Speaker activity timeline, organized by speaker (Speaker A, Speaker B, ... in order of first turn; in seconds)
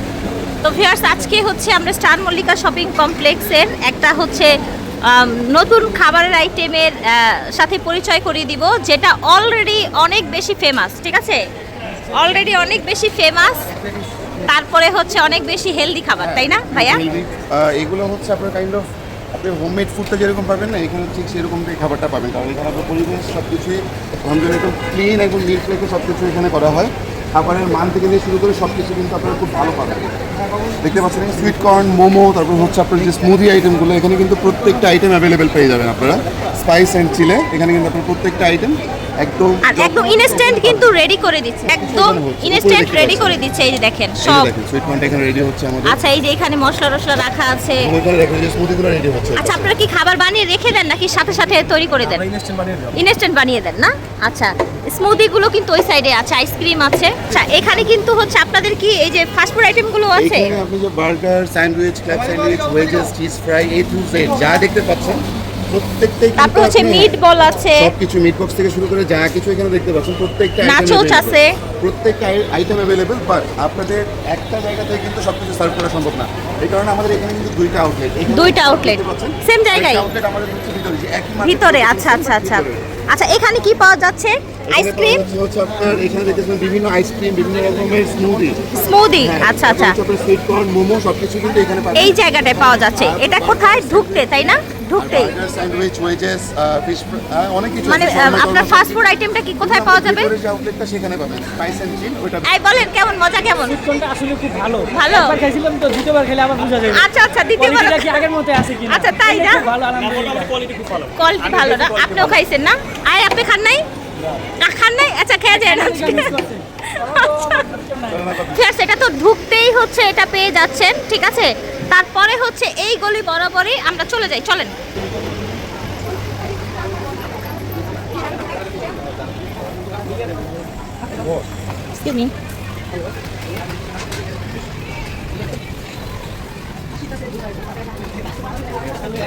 Speaker A: 0.6-4.5, 5.1-11.4, 12.1-13.7, 14.5-17.0, 39.7-44.5, 45.9-47.9, 49.4-52.3, 52.9-60.5, 66.4-67.9, 70.6-71.5, 78.3-80.1, 81.4-85.2, 88.8-90.0, 92.0-95.3, 97.9-100.3, 102.5-103.9, 104.9-105.4, 106.8-108.2, 108.9-109.7, 111.1-113.8, 114.6-117.8, 118.4-124.8, 131.9-132.3
Speaker B: 16.2-30.2, 30.8-41.0, 41.7-43.4, 44.2-46.0, 47.8-49.8, 60.2-67.1, 67.8-82.8, 84.7-94.3, 95.0-99.1, 99.6-102.5, 111.5-112.4, 118.1-118.7
Speaker C: 103.8-107.0, 107.6-111.1, 115.7-118.2